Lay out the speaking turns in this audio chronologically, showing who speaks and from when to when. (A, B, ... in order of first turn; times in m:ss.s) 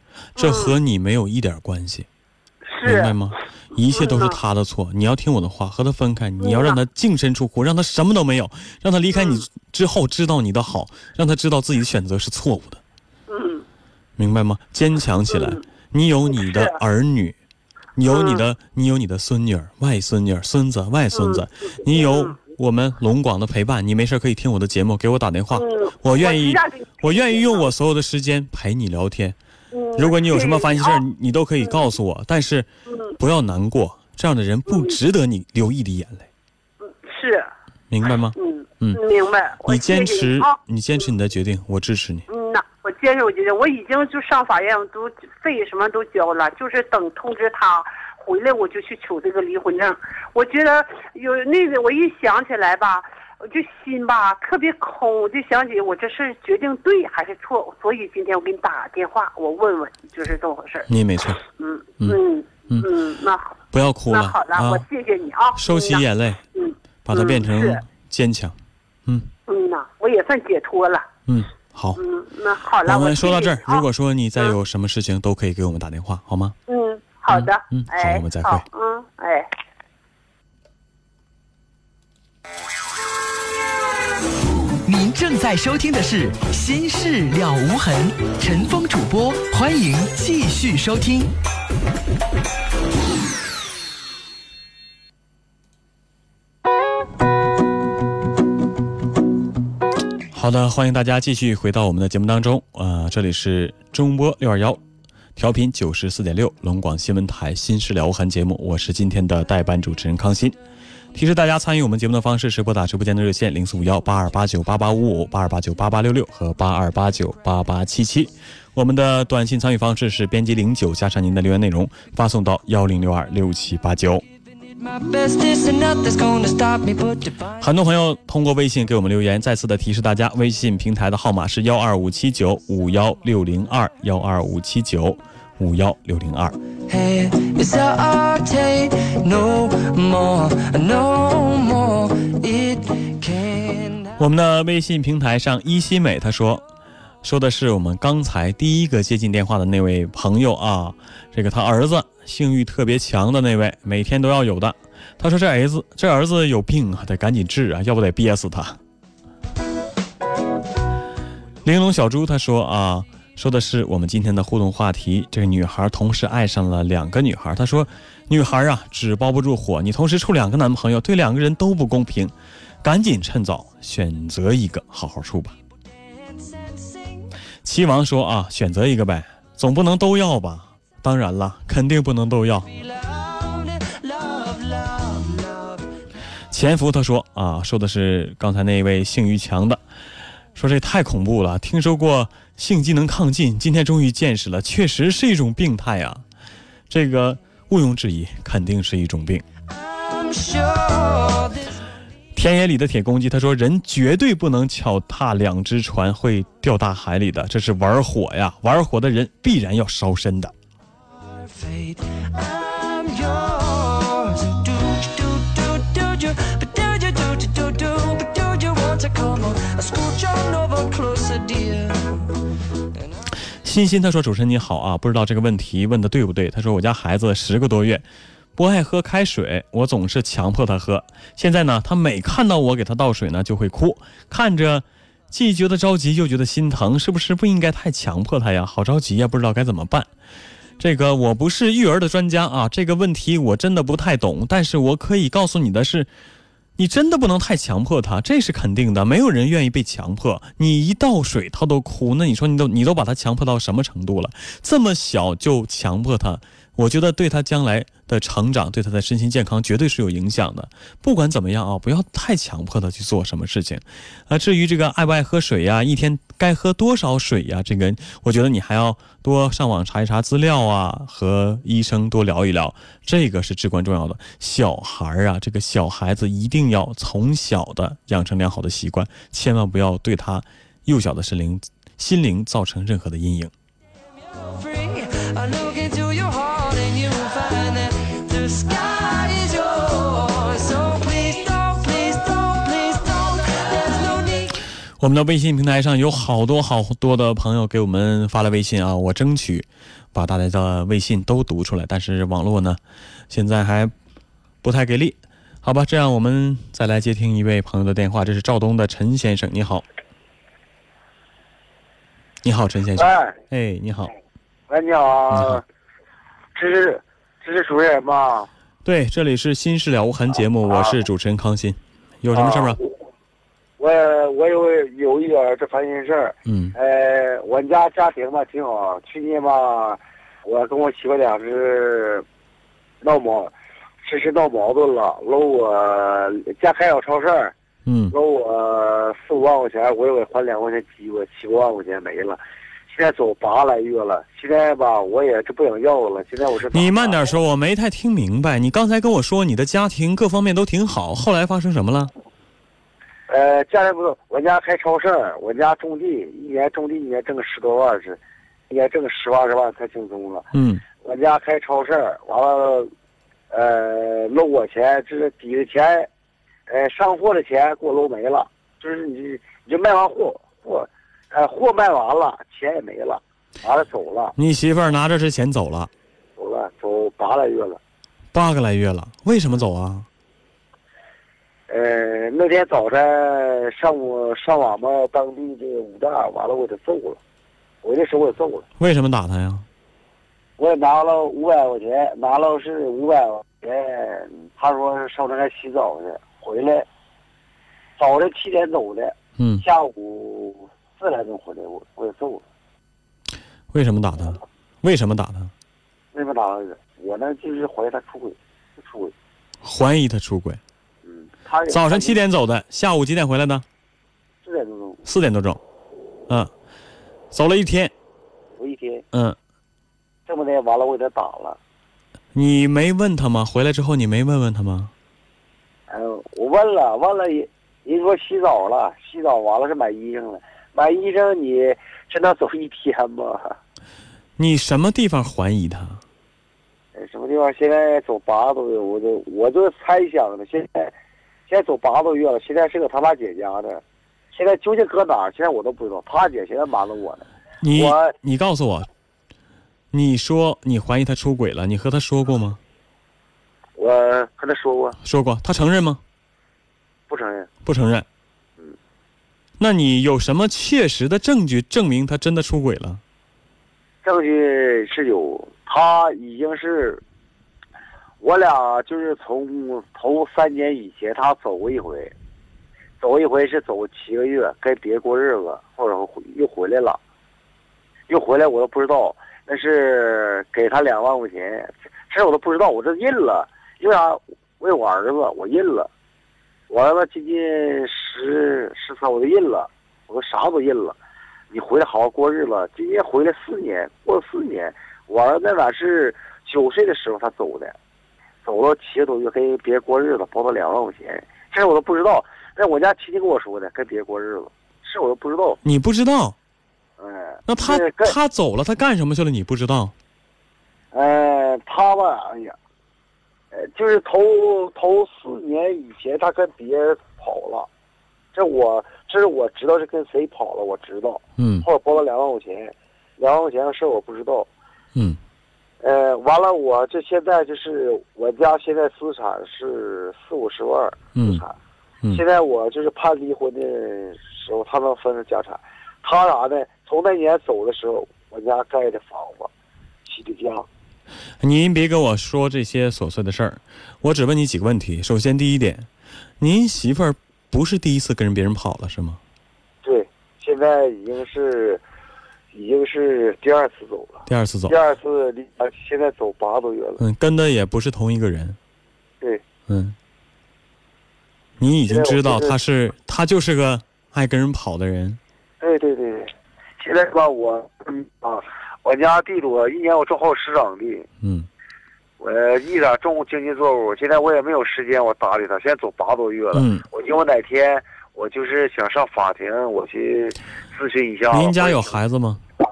0:00.4-0:02.1 A
0:00.4-0:00.8 B
0:02.7-0:03.2 B
0:02.8-0:12.8 A
0:03.8-0:04.4 B
0:06.4-0:06.8 B
0:09.1-0:09.4 B
0:13.3-0:13.6 B
0:14.2-0:17.4 A
0:15.3-0:15.6 B
0:16.3-0:16.8 B
0:18.0-0:29.4 A
0:18.1-0:18.4 B
0:21.1-0:22.4 B
0:25.5-0:27.7 B
0:29.7-0:31.0 B
0:30.0-0:32.7 A
0:32.9-0:33.2 B
0:33.2-0:36.3 A
0:34.7-0:35.0 B
0:36.8-0:37.5 B
0:37.9-0:39.0 A
0:38.4-0:40.6 B
0:39.6-0:42.3 A
0:42.3-1:00.9 B
1:00.9-1:01.4 A
1:01.4-1:03.6 B
1:03.7-1:04.8 A
1:04.1-1:07.8 B
1:05.6-1:06.4 A
1:07.0-1:09.3 A
1:09.5-1:11.1 B
1:11.3-1:12.0 A
1:12.0-1:13.8 B
1:12.8-1:16.6 A
1:16.7-1:19.5 B
1:17.3-1:18.6 A
1:24.9-1:31.3 C
1:40.3-1:44.8 A
1:45.4-1:50.6 A
1:51.1-2:04.2 A
2:04.5-2:07.6 D
2:07.6-2:16.6 A
2:16.9-2:24.2 D
2:24.2-2:26.6 A
2:27.2-2:38.8 A
2:41.6-2:55.6 A
2:56.1-2:57.3 D
2:57.6-3:02.7 A
3:02.7-3:05.9 D
3:06.5-3:09.8 A
3:10.6-3:16.2 A
3:16.9-3:19.4 A
3:19.7-3:21.7 D
3:22.4-3:30.5 A
3:31.4-3:42.3 D
3:43.6-3:48.0 A
3:48.6-4:00.1 A
4:00.8-4:06.1 A
4:06.8-4:43.5 A
4:44.3-4:54.6 D
4:55.0-5:02.8 A
5:03.3-5:03.9 A
5:04.6-5:09.8 A
5:12.4-5:14.1 A
5:12.9-5:13.4 E
5:14.7-5:15.6 E
5:15.3-5:15.6 A
5:16.6-5:18.5 E
5:18.8-5:22.8 A
5:20.7-5:20.9 E
5:22.3-5:22.9 E
5:23.8-5:32.2 E
5:26.5-5:26.8 A
5:33.0-5:33.5 E
5:34.0-5:37.5 E
5:37.8-5:38.2 A
5:38.1-5:47.3 E
5:46.7-5:52.1 A
5:53.3-5:58.2 E
5:58.7-6:00.5 E
6:00.5-6:00.8 A
6:01.0-6:02.9 E
6:03.5-6:06.1 E
6:06.7-6:14.4 E
6:14.4-6:15.9 A
6:16.4-6:17.8 E
6:18.3-6:20.1 A
6:21.7-6:27.2 E
6:27.8-6:28.6 E
6:28.8-6:29.6 A
6:30.6-6:36.9 E
6:38.0-6:42.4 E
6:39.4-6:39.6 A
6:43.7-6:45.5 A
6:46.1-6:49.1 E
6:49.6-6:50.6 A
6:51.0-6:52.2 E
6:51.7-6:53.6 A
6:54.4-6:55.0 E
6:55.0-6:55.6 A
6:57.3-6:57.9 A
6:58.6-6:59.0 E
7:00.3-7:01.6 E
7:02.3-7:04.9 A
7:05.9-7:13.6 E
7:14.4-7:16.0 A
7:16.9-7:20.9 E
7:21.5-7:23.8 E
7:24.3-7:28.2 E
7:27.6-7:28.9 A
7:29.9-7:32.6 A
7:33.8-7:35.0 E
7:35.0-7:36.0 A
7:37.1-7:37.5 E
7:37.6-7:38.1 A
7:39.6-7:43.0 A
7:44.0-7:47.0 E
7:48.2-7:52.1 E
7:53.0-7:57.0 E
7:58.1-8:05.9 E
8:06.7-8:11.0 E
8:11.5-8:17.8 E
8:18.4-8:25.6 E
8:25.6-8:26.4 A
8:27.0-8:28.2 E
8:27.5-8:29.9 A
8:30.9-8:32.6 E
8:33.5-8:37.7 E
8:38.3-8:44.5 E
8:41.4-8:41.7 A
8:45.8-8:51.6 E
8:51.2-8:51.4 A
8:52.1-8:59.5 E
9:00.0-9:00.7 E
9:01.4-9:05.9 A
9:06.4-9:09.2 A
9:09.8-9:11.8 E
9:12.5-9:17.0 E
9:14.2-9:14.8 A
9:17.0-9:18.6 A
9:19.7-9:20.0 A
9:21.6-9:25.2 A
9:21.9-9:22.6 E
9:25.6-9:31.1 E
9:31.2-9:31.5 A
9:32.2-9:41.9 E
9:36.5-9:36.8 A
9:41.3-9:42.4 A